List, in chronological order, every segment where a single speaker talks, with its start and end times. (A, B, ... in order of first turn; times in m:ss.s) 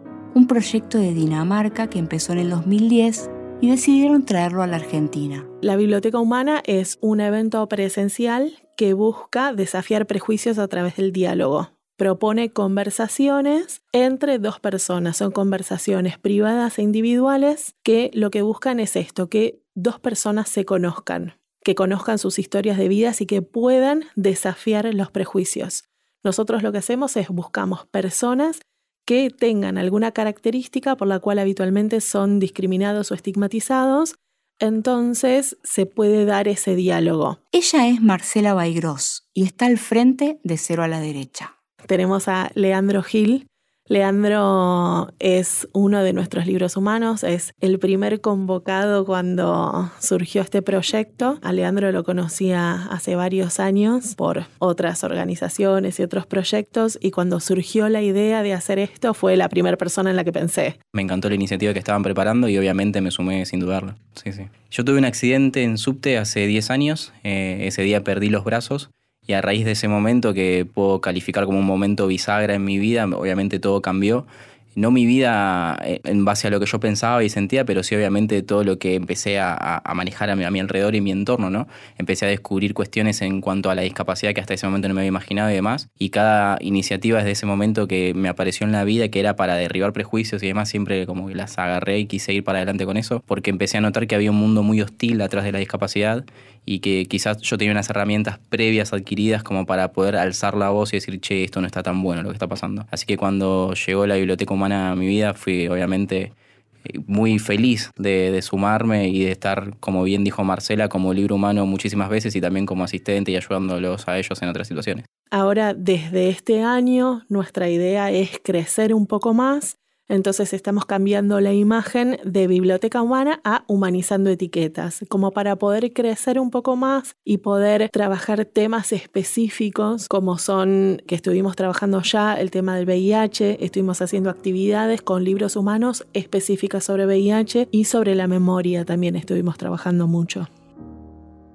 0:00.3-0:05.5 A
0:05.6-0:37.4 B
0:37.5-0:41.5 A
0:41.8-1:00.8 B
1:00.9-1:46.3 C
1:46.9-1:55.0 C
1:55.3-2:20.5 B